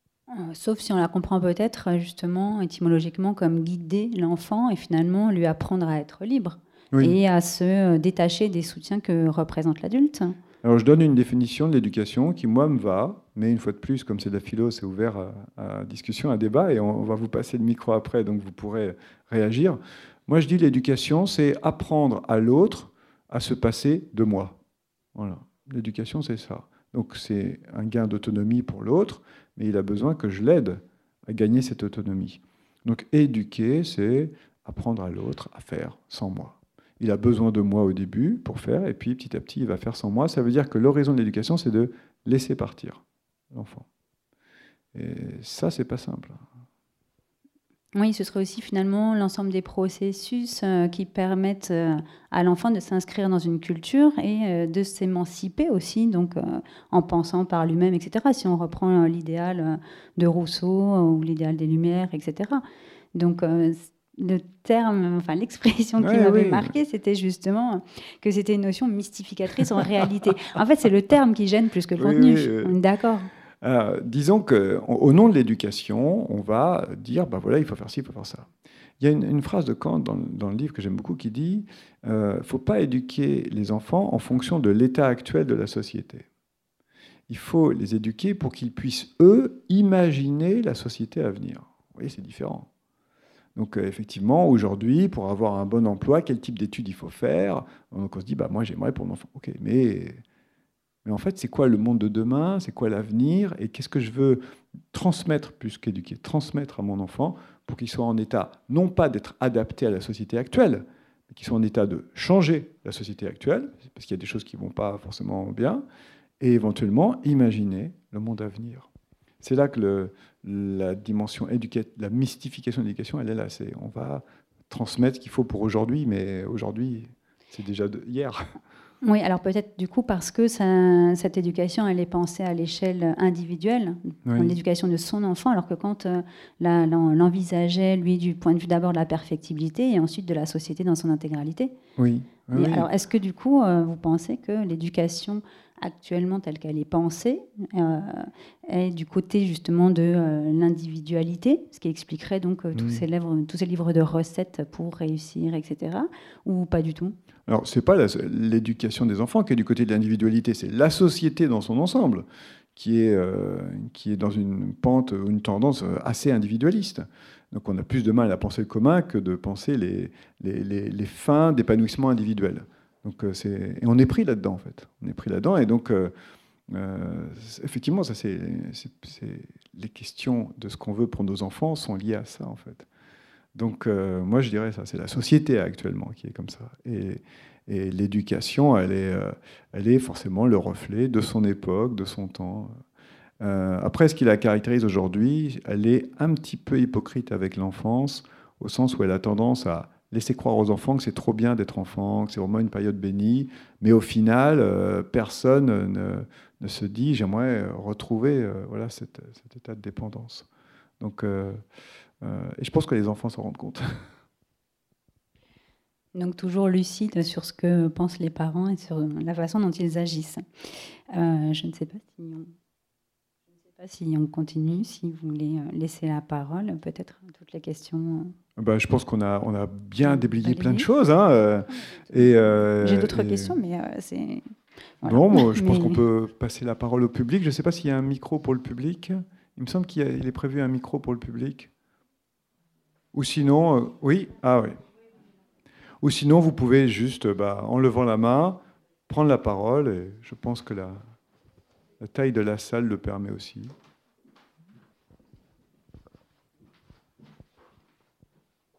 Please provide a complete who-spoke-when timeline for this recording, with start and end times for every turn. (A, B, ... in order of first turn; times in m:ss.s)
0:00.3-0:10.4 A
0:06.9-0:07.2 B
0:10.6-0:24.6 B
0:25.2-0:43.9 B
0:44.9-0:46.5 B
0:48.0-1:02.6 A
1:03.2-1:13.3 A
1:06.0-1:06.7 B
1:12.0-1:12.8 B
1:13.6-1:18.5 B
1:19.0-1:26.3 B
1:27.3-1:32.7 B
1:33.6-1:40.2 B
1:41.0-1:55.8 B
1:56.4-1:58.9 B
1:59.4-2:08.5 B
2:09.0-2:21.8 A
2:14.2-2:14.6 B
2:22.0-2:22.9 B
2:22.5-2:37.2 A
2:32.7-2:33.0 B
2:37.5-2:56.1 B
2:56.7-3:02.9 B
3:03.6-3:12.8 B
3:13.4-3:30.5 B
3:31.0-3:31.6 B
3:32.2-3:34.0 B
3:36.2-3:42.5 A
3:43.8-3:48.3 A
3:48.6-3:53.6 B
3:50.0-3:50.9 A
3:51.9-3:56.0 A
3:55.0-4:01.7 B
4:03.1-4:04.8 B
4:06.0-4:11.0 B
4:12.0-4:13.7 B